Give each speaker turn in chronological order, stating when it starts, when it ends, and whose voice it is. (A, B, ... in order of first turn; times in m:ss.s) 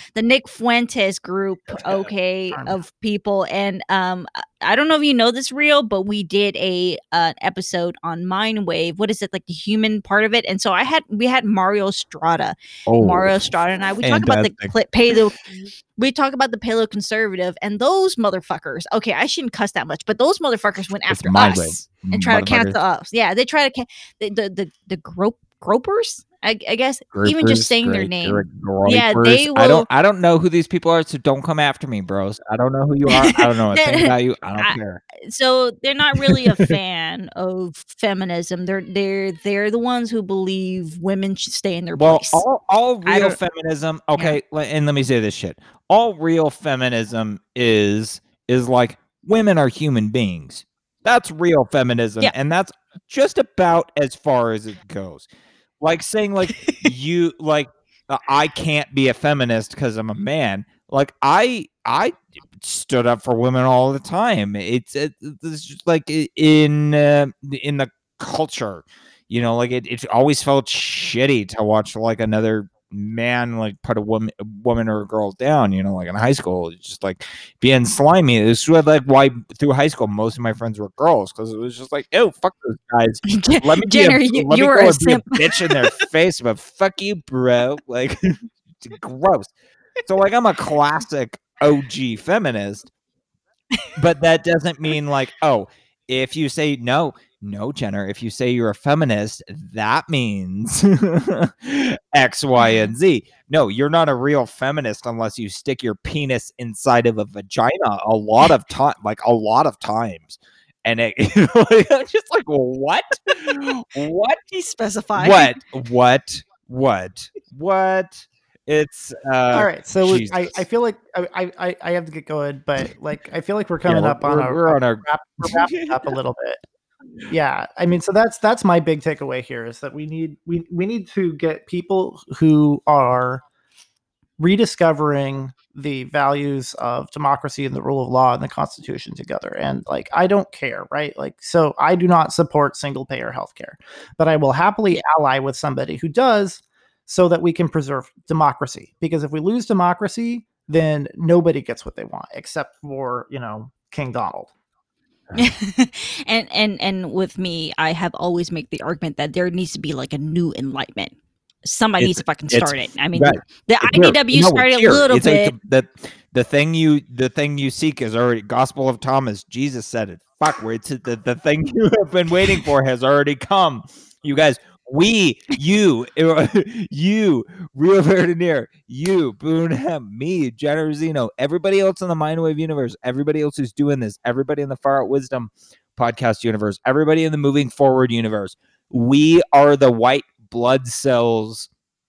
0:00.2-0:15.4 A
0:12.9-0:15.1 B
0:16.0-0:29.9 A
0:21.1-0:22.8 B
0:27.1-0:35.0 B
0:33.1-0:42.4 A
0:36.2-0:36.8 B
0:42.0-0:55.3 B
0:43.0-0:43.4 A
0:55.8-1:29.5 B
0:56.5-0:56.8 A
1:23.3-1:25.9 A
1:30.0-1:32.9 B
1:33.9-1:54.4 B
1:42.6-1:42.9 A
1:54.5-1:55.6 A
1:55.2-2:00.6 B
1:59.5-2:06.6 C
2:03.8-2:06.0 B
2:07.3-2:13.4 C
2:14.4-2:34.5 C
2:35.4-2:45.5 A
2:42.0-3:11.7 B